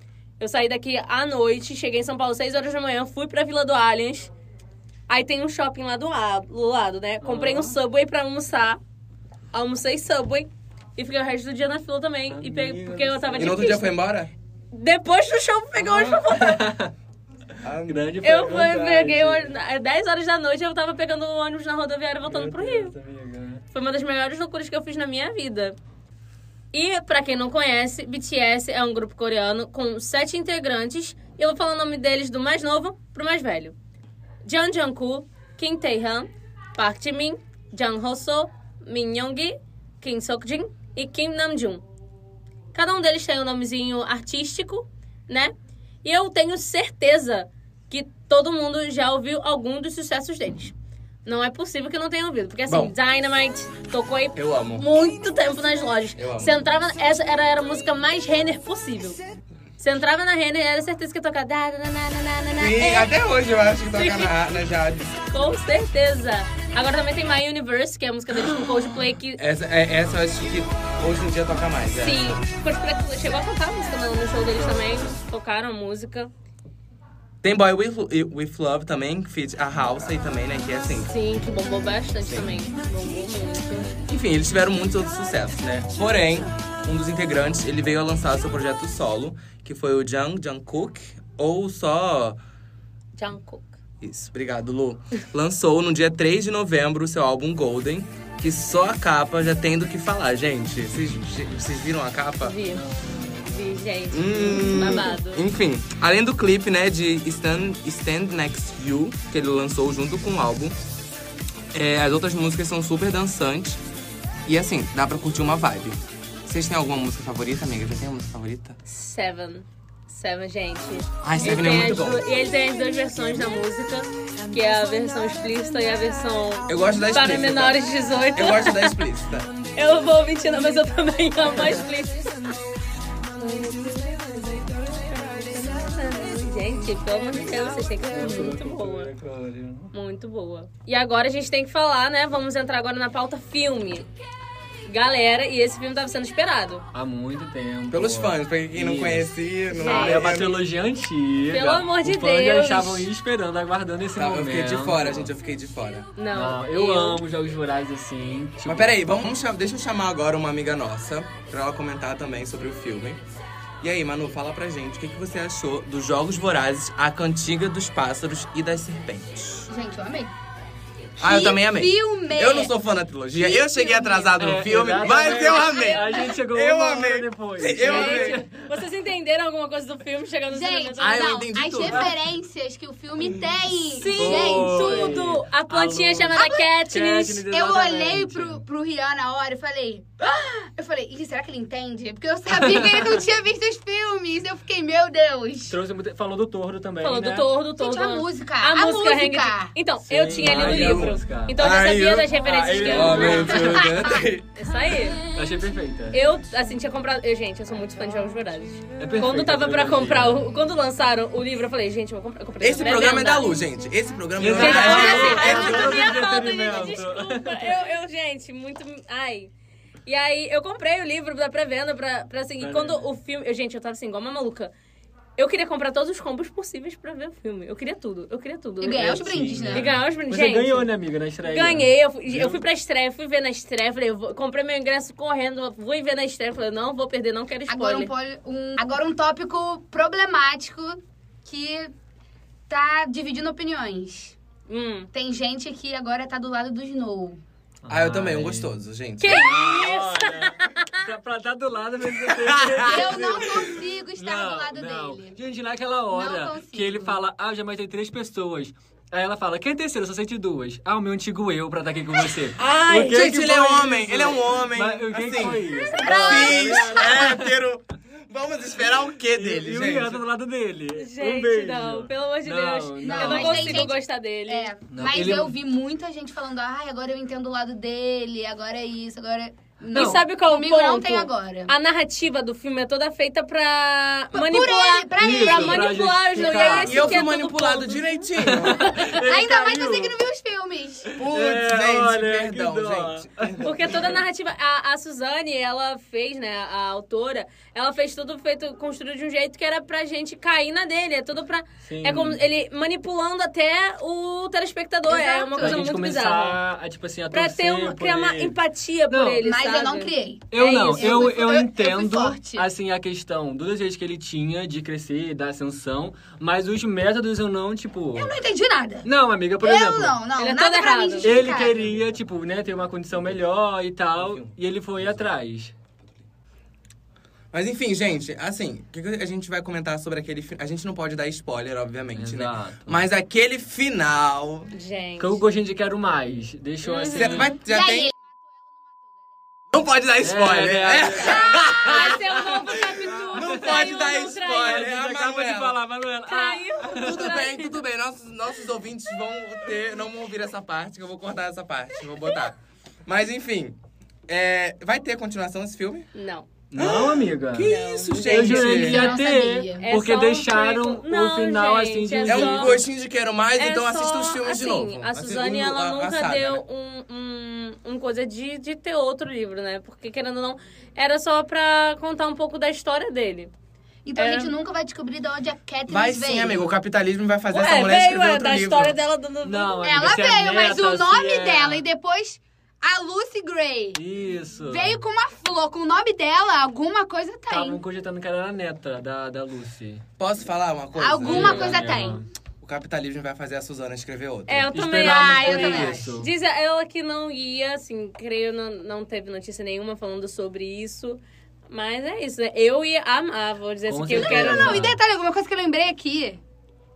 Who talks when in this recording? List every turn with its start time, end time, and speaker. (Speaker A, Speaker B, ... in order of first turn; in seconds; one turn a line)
Speaker A: 0.4-4.3
Speaker A: 5.1-8.8
Speaker B: 7.2-7.8
Speaker A: 9.5-13.9
Speaker B: 12.3-13.7
Speaker C: 13.4-14.3
Speaker A: 14.7-16.7
Speaker B: 15.8-16.9
Speaker C: 17.6-18.2
Speaker B: 17.8-19.5
Speaker A: 18.2-22.9
Speaker B: 22.2-23.6
Speaker A: 23.7-25.8
Speaker A: 26.7-33.7
Speaker A: 34.4-41.8
Speaker A: 42.7-45.5
Speaker A: 46.0-50.7
Speaker A: 51.2-59.2
Speaker C: 52.7-52.9
Speaker C: 54.3-54.9
Speaker C: 56.2-56.5
Speaker A: 59.8-63.1
Speaker C: 62.6-65.2
Speaker A: 64.0-64.3
Speaker A: 65.3-69.4
Speaker C: 69.4-72.4
Speaker A: 72.0-76.3
Speaker B: 74.8-75.2
Speaker C: 77.4-81.1
Speaker A: 81.0-84.0
Speaker C: 84.0-92.4
Speaker A: 93.2-93.7
Speaker C: 94.0-102.5
Speaker A: 102.4-102.8
Speaker B: 102.7-103.7
Speaker A: 103.4-105.4
Speaker C: 104.1-110.7
Speaker C: 111.7-113.8
Speaker C: 114.5-118.8
Speaker A: 118.8-129.0
Speaker C: 121.2-122.2
Speaker C: 126.7-127.8
Speaker C: 128.3-129.5
Speaker A: 129.7-132.4
Speaker A: 133.3-139.1
Speaker B: 138.1-139.9
Speaker A: 139.9-144.1
Speaker A: 144.9-146.8
Speaker B: 146.9-155.3
Speaker C: 147.9-150.6
Speaker A: 149.7-150.4
Speaker A: 151.5-153.1
Speaker C: 154.2-156.1
Speaker A: 156.2-157.2
Speaker B: 156.3-158.9
Speaker C: 158.7-163.2
Speaker C: 163.8-169.7
Speaker D: 169.7-170.3
Speaker C: 171.2-178.4
Speaker D: 171.2-172.7
Speaker D: 173.3-174.4
Speaker B: 174.4-178.6
Speaker A: 175.0-176.2
Speaker D: 175.5-176.3
Speaker A: 177.8-181.3
Speaker D: 180.5-185.2
Speaker C: 181.0-182.1
Speaker B: 181.8-182.1
Speaker A: 183.9-187.4
Speaker B: 184.1-188.6
Speaker D: 186.3-186.7
Speaker D: 187.5-195.8
Speaker B: 192.5-193.2
Speaker B: 195.7-197.5
Speaker A: 197.0-205.2
Speaker D: 197.8-199.7
Speaker B: 200.1-201.6
Speaker C: 200.4-204.5
Speaker B: 202.4-204.0
Speaker B: 205.3-206.2
Speaker A: 206.1-213.5
Speaker B: 209.0-210.5
Speaker C: 212.6-216.2
Speaker B: 214.4-217.8
Speaker A: 214.5-219.5
Speaker A: 220.1-224.7
Speaker B: 222.6-223.1
Speaker A: 225.4-230.9
Speaker D: 228.8-229.9
Speaker B: 228.9-232.6
Speaker A: 231.4-238.1
Speaker D: 237.7-241.9
Speaker D: 242.7-244.3
Speaker A: 244.7-245.1
Speaker D: 245.1-247.4
Speaker B: 247.8-248.7
Speaker C: 247.9-249.4
Speaker A: 249.2-251.1
Speaker B: 249.2-267.5
Speaker C: 252.2-253.7
Speaker D: 252.8-255.4
Speaker D: 256.1-257.2
Speaker A: 262.6-263.3
Speaker C: 263.1-270.2
Speaker D: 265.4-267.3
Speaker A: 265.9-266.5
Speaker B: 269.3-273.9
Speaker A: 270.9-274.7
Speaker D: 273.0-281.7
Speaker B: 274.9-275.6
Speaker B: 279.9-280.2
Speaker A: 279.9-289.2
Speaker D: 284.3-287.2
Speaker B: 285.2-287.2
Speaker C: 286.8-288.9
Speaker B: 288.4-290.2
Speaker D: 288.9-291.2
Speaker B: 291.1-294.2
Speaker C: 291.1-294.1
Speaker A: 293.6-306.6
Speaker B: 301.8-302.4
Speaker D: 305.1-305.8
Speaker B: 305.6-308.6
Speaker A: 307.3-310.2
Speaker B: 309.1-309.4
Speaker D: 309.4-312.7
Speaker B: 310.5-318.4
Speaker D: 318.1-319.1
Speaker B: 319.0-320.2
Speaker D: 319.6-322.0
Speaker A: 320.4-321.4
Speaker B: 321.2-325.7
Speaker C: 324.2-325.1
Speaker C: 327.5-334.7
Speaker B: 332.1-333.0
Speaker A: 334.7-335.4
Speaker B: 335.2-337.5
Speaker A: 336.8-337.5
Speaker C: 337.1-338.1
Speaker D: 337.6-339.4
Speaker C: 339.7-345.8
Speaker B: 340.2-347.2
Speaker A: 341.2-344.9
Speaker A: 346.3-347.8
Speaker C: 346.9-356.1
Speaker A: 356.1-356.5
Speaker B: 356.7-362.8
Speaker C: 356.8-359.1
Speaker A: 357.6-359.2
Speaker D: 358.6-359.9
Speaker A: 359.8-362.8
Speaker C: 362.3-366.6
Speaker A: 363.6-373.5
Speaker D: 374.0-376.8
Speaker A: 374.1-374.5
Speaker C: 375.9-379.0
Speaker A: 377.5-380.1
Speaker B: 379.4-381.8
Speaker D: 379.8-387.8
Speaker B: 383.9-385.0
Speaker B: 387.5-390.0
Speaker C: 390.2-392.0
Speaker D: 390.9-392.2
Speaker B: 391.2-392.3
Speaker C: 392.6-394.7
Speaker A: 394.5-404.8
Speaker B: 394.7-396.3
Speaker D: 395.0-396.1
Speaker C: 395.6-396.0
Speaker B: 403.9-405.0
Speaker D: 404.1-406.4